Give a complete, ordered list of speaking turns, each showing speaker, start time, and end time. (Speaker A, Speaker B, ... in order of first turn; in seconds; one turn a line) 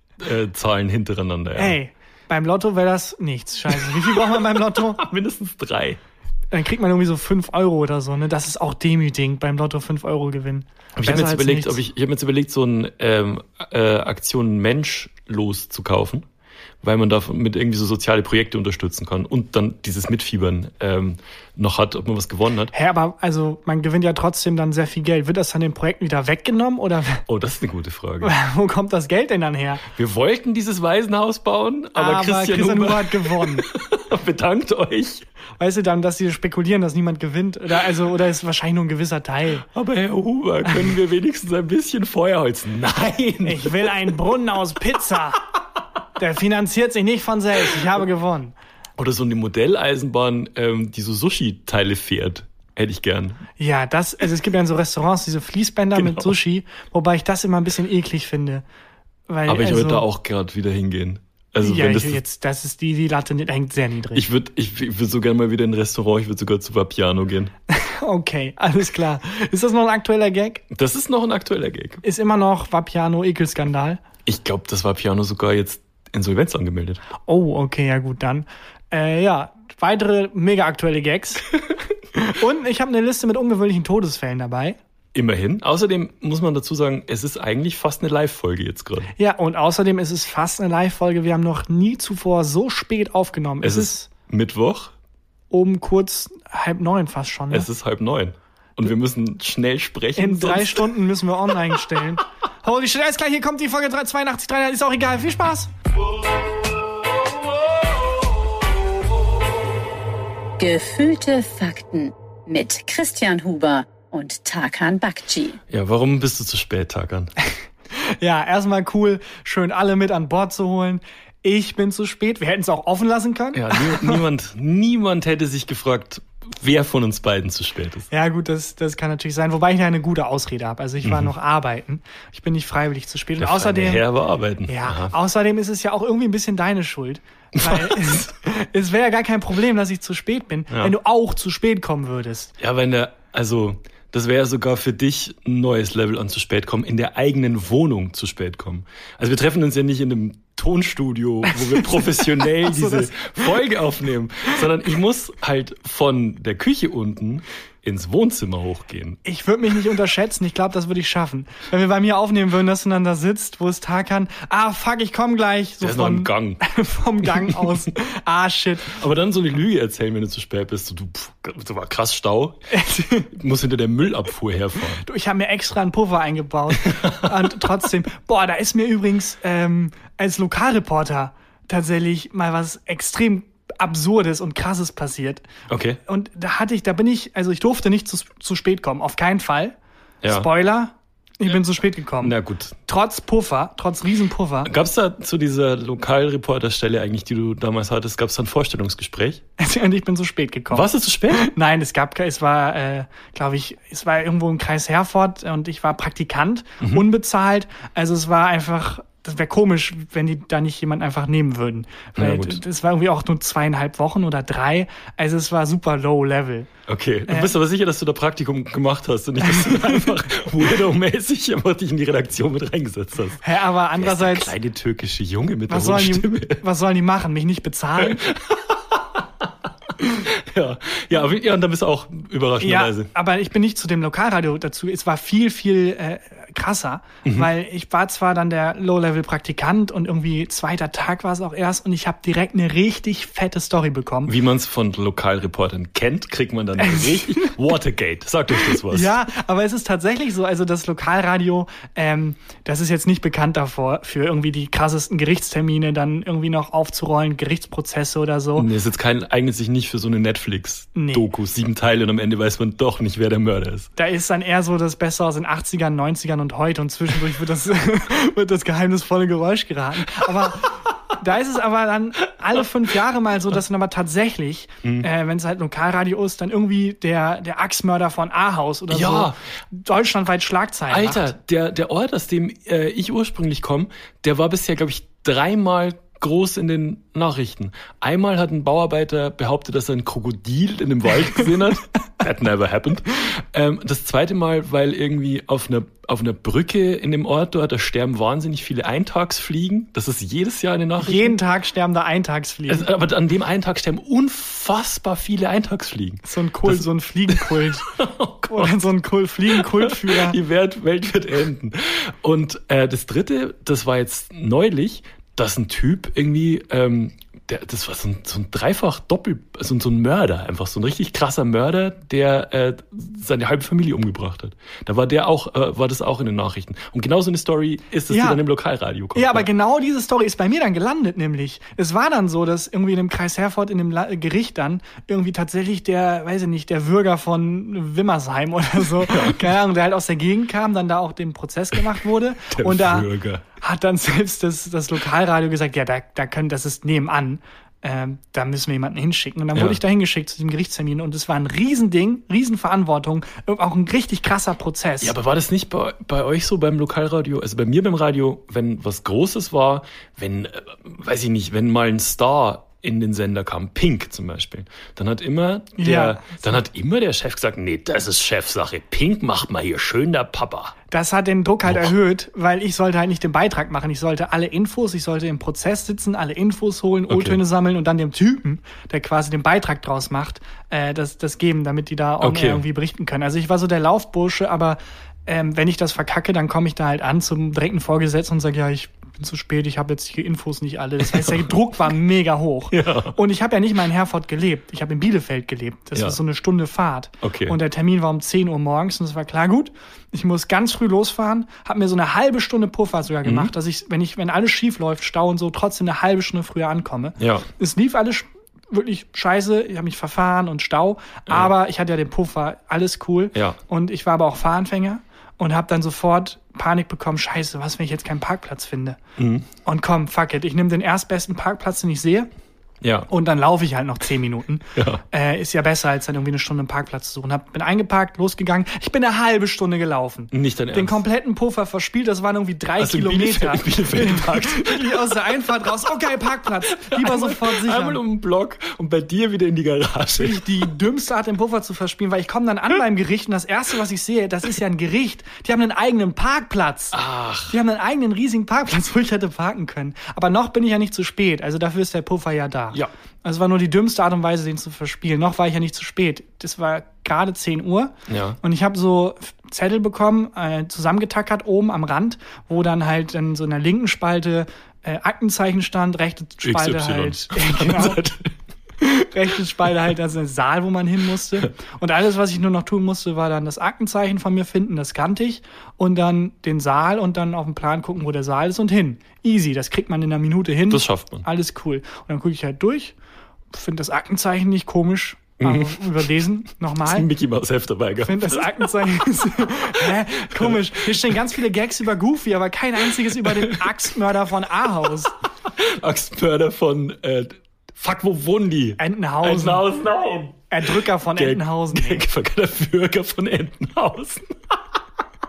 Speaker A: 0.2-1.8
Speaker B: 1.6-5.0
Speaker A: 3.7-6.0
Speaker B: 6.5-11.8
Speaker A: 11.0-16.2
Speaker A: 16.8-22.7
Speaker B: 22.7-27.2
Speaker A: 27.3-28.3
Speaker B: 28.2-29.9
Speaker A: 29.9-35.2
Speaker B: 31.9-33.6
Speaker B: 35.6-39.6
Speaker A: 39.7-44.0
Speaker B: 40.6-40.9
Speaker B: 43.4-45.4
Speaker B: 46.2-48.5
Speaker A: 49.0-53.4
Speaker B: 53.6-58.6
Speaker A: 55.9-56.4
Speaker B: 59.3-60.0
Speaker A: 59.5-62.2
Speaker B: 61.6-64.2
Speaker A: 64.1-67.5
Speaker B: 67.7-70.6
Speaker A: 70.7-72.0
Speaker B: 72.0-74.0
Speaker A: 74.2-77.0
Speaker B: 77.2-81.5
Speaker B: 82.1-84.8
Speaker A: 85.1-89.1
Speaker B: 89.2-94.1
Speaker A: 93.6-94.9
Speaker B: 95.5-97.7
Speaker A: 97.5-100.9
Speaker B: 100.2-105.7
Speaker C: 110.6-115.6
Speaker A: 115.7-117.3
Speaker B: 117.9-124.2
Speaker A: 123.5-128.1
Speaker B: 128.1-134.0
Speaker A: 131.0-131.3
Speaker A: 133.4-135.1
Speaker B: 134.7-142.5
Speaker A: 137.5-138.2
Speaker A: 142.6-159.2
Speaker B: 151.5-153.4
Speaker B: 159.2-169.0
Speaker A: 165.8-166.6
Speaker A: 167.2-167.8
Speaker A: 168.9-172.6
Speaker B: 172.7-173.3
Speaker A: 173.3-175.0
Speaker B: 175.0-185.4
Speaker A: 176.8-177.8
Speaker A: 185.7-186.0
Speaker B: 186.1-189.7
Speaker A: 190.2-190.5
Speaker B: 190.3-194.7
Speaker A: 192.2-192.7
Speaker A: 194.6-199.4
Speaker B: 199.6-216.7
Speaker A: 200.7-201.4
Speaker A: 212.2-212.6
Speaker A: 216.9-223.4
Speaker B: 217.3-217.5
Speaker B: 219.4-220.1
Speaker B: 223.4-224.5
Speaker A: 224.0-226.6
Speaker B: 225.7-228.2
Speaker A: 228.0-233.1
Speaker B: 232.6-244.3
Speaker A: 244.3-249.1
Speaker B: 246.8-247.5
Speaker B: 248.6-258.7
Speaker A: 258.6-263.9
Speaker B: 260.9-261.3
Speaker B: 263.9-281.3
Speaker A: 278.9-279.4
Speaker A: 280.9-301.4
Speaker B: 301.0-302.9
Speaker A: 302.7-308.9
Speaker B: 306.2-307.9
Speaker B: 308.5-310.4
Speaker A: 309.5-329.5
Speaker B: 328.1-328.4
Speaker B: 329.1-355.1
Speaker A: 338.9-339.5
Speaker A: 342.5-343.4
Speaker A: 349.5-349.8
Speaker A: 355.0-370.7
Speaker B: 365.8-366.6
Speaker B: 370.9-419.0
Speaker A: 377.1-377.4
Speaker A: 382.2-382.6
Speaker A: 391.1-391.5
Speaker A: 392.7-393.1
Speaker A: 397.2-397.6
Speaker A: 403.2-403.5
Speaker A: 407.2-407.5
Speaker A: 419.2-419.5
Speaker B: 419.6-422.3
Speaker A: 422.8-423.1
Speaker B: 423.1-438.0
Speaker A: 424.7-425.0
Speaker A: 430.3-431.0
Speaker A: 432.8-435.1
Speaker A: 436.7-440.7
Speaker B: 440.2-468.0
Speaker A: 446.9-447.6
Speaker A: 458.1-458.4
Speaker A: 466.4-468.3
Speaker B: 468.8-482.9
Speaker A: 480.7-481.2
Speaker B: 483.5-487.1
Speaker A: 485.4-486.0
Speaker A: 486.8-488.7
Speaker B: 488.0-495.1
Speaker A: 489.4-491.2
Speaker A: 493.2-493.8
Speaker A: 495.4-504.6
Speaker B: 498.8-499.7
Speaker B: 500.5-502.0